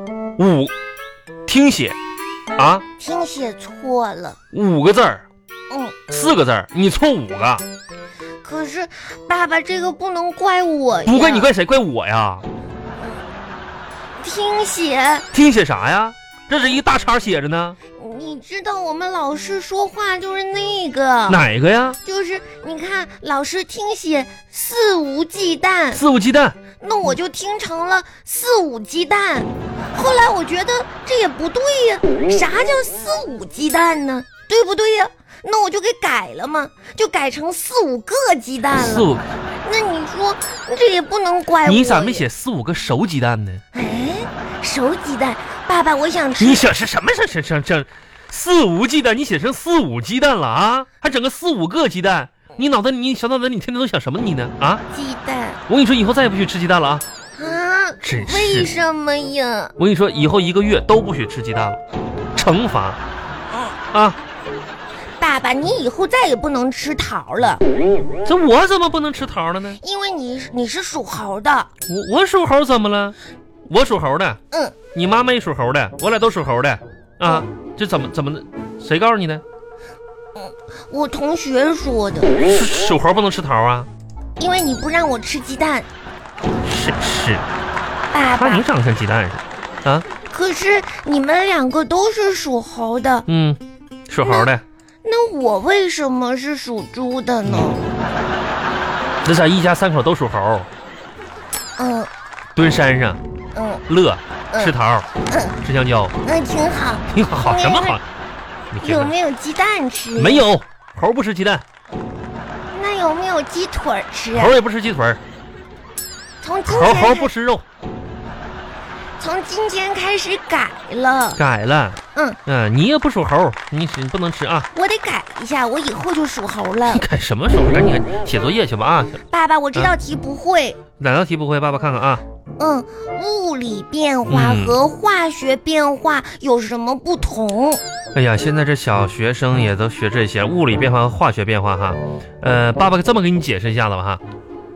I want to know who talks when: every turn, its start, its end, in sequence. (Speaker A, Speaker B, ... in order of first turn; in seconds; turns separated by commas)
Speaker A: 0.4-0.7, Speaker A: 1.5-2.0, Speaker A: 2.6-2.9, Speaker B: 3.0-4.4, Speaker A: 4.5-5.3, Speaker B: 5.7-6.0, Speaker A: 6.1-7.6, Speaker B: 8.4-11.5, Speaker A: 11.1-12.5, Speaker B: 13.0-13.3, Speaker B: 14.2-15.3, Speaker A: 15.3-17.8, Speaker B: 18.0-21.4, Speaker A: 21.3-22.0, Speaker B: 22.0-26.0, Speaker A: 25.9-26.6, Speaker B: 26.8-39.1, Speaker A: 38.8-39.3, Speaker B: 39.6-42.2, Speaker A: 41.6-43.6, Speaker B: 43.7-46.7, Speaker A: 46.4-54.8, Speaker B: 54.9-55.6, Speaker A: 55.7-57.0, Speaker B: 57.3-59.7, Speaker A: 58.0-58.7, Speaker A: 59.8-61.8, Speaker A: 62.4-63.0, Speaker A: 63.9-64.2, Speaker B: 65.2-67.6, Speaker A: 68.2-69.8, Speaker B: 69.8-71.7, Speaker A: 71.9-73.2, Speaker A: 73.7-74.4, Speaker B: 74.5-74.8, Speaker A: 74.9-79.4, Speaker B: 80.4-82.4, Speaker A: 82.4-83.9, Speaker B: 84.4-85.9, Speaker A: 86.6-87.5, Speaker B: 88.1-88.7, Speaker A: 88.4-90.1, Speaker B: 90.3-93.3, Speaker A: 93.3-94.6, Speaker B: 94.2-94.5, Speaker B: 95.0-97.8, Speaker A: 99.2-100.7, Speaker B: 101.8-102.1, Speaker A: 102.5-103.2, Speaker B: 103.5-103.8, Speaker A: 103.9-105.1, Speaker B: 105.3-105.6, Speaker A: 105.6-106.2, Speaker B: 106.2-108.0, Speaker A: 107.1-108.0, Speaker A: 108.7-109.1, Speaker B: 108.8-110.5, Speaker A: 110.2-111.6, Speaker B: 112.7-114.6, Speaker A: 114.3-115.2, Speaker B: 116.4-117.3, Speaker A: 116.7-117.7, Speaker B: 119.2-121.4, Speaker A: 121.4-124.7, Speaker B: 124.7-127.0, Speaker A: 126.9-129.2, Speaker B: 129.3-130.8, Speaker A: 131.0-132.2, Speaker B: 132.6-137.8, Speaker A: 134.3-134.8, Speaker A: 138.2-144.2